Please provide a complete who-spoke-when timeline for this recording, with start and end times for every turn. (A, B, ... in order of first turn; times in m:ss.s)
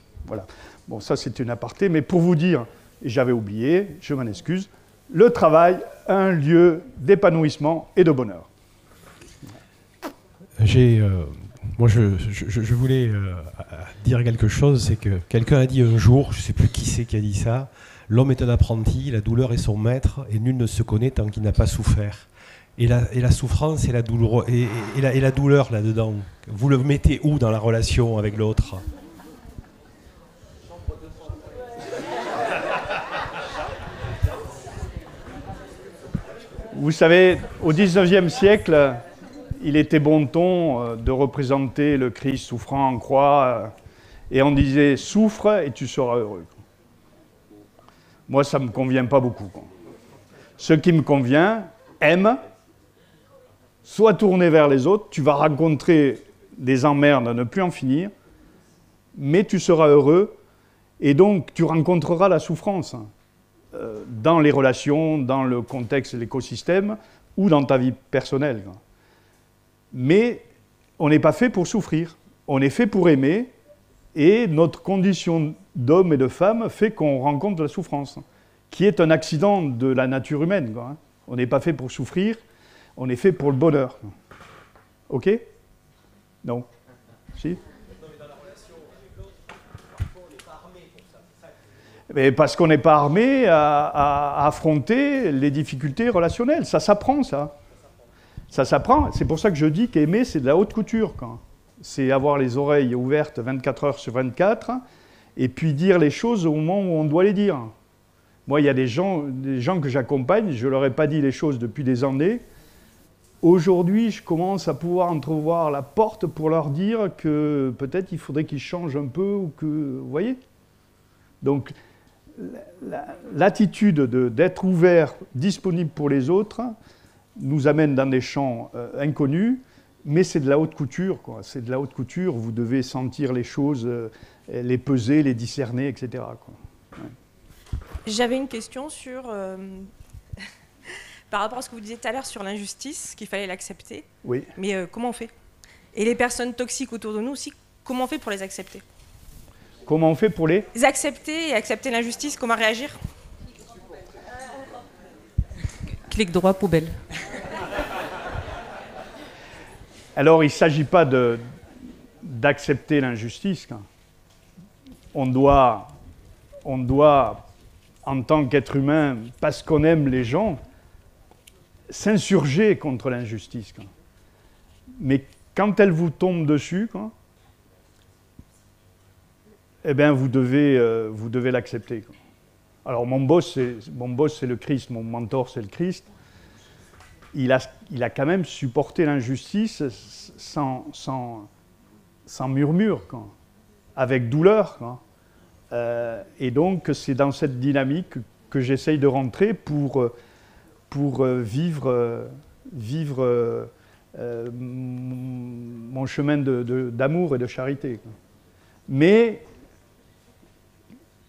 0:00.2-0:08.5 A
0:10.6-0:28.8 B
0:36.7-0:39.0 A
0:39.6-0:43.7 A
0:44.3-0:46.6 A
0:48.3-0:49.7 A
0:50.6-0:52.4 A
0:53.8-0:58.1 A
0:59.1-1:00.3 A
1:01.0-1:03.1 A
1:03.7-1:08.8 A
1:09.9-1:10.4 A
1:11.0-1:13.5 A
1:14.1-1:22.4 A
1:23.0-1:24.1 A
1:25.1-1:25.4 A
1:32.1-1:37.5 A
1:38.5-1:44.8 A
1:45.4-1:47.7 A
1:48.5-1:52.4 A
1:53.4-2:00.4 A
2:01.4-2:01.7 A
2:02.4-2:06.7 A
2:07.4-2:17.1 A
2:18.0-2:19.9 C
2:20.9-2:25.3 C
2:24.2-2:24.5 A
2:25.9-2:28.8 C
2:29.8-2:30.7 A
2:30.7-2:33.0 C
2:36.1-2:37.0 C
2:40.2-2:41.4 A
2:42.2-2:43.8 A
2:45.1-2:45.9 A
2:46.6-2:47.4 A
2:48.0-2:50.6 A
2:51.9-2:53.9 A
2:55.0-2:57.1 A
2:59.8-3:02.1 A
3:02.8-3:06.1 A
3:07.3-3:11.5 A
3:12.3-3:13.3 A
3:14.0-3:15.0 A
3:15.7-3:20.1 A
3:20.9-3:28.0 A
3:28.9-3:29.4 A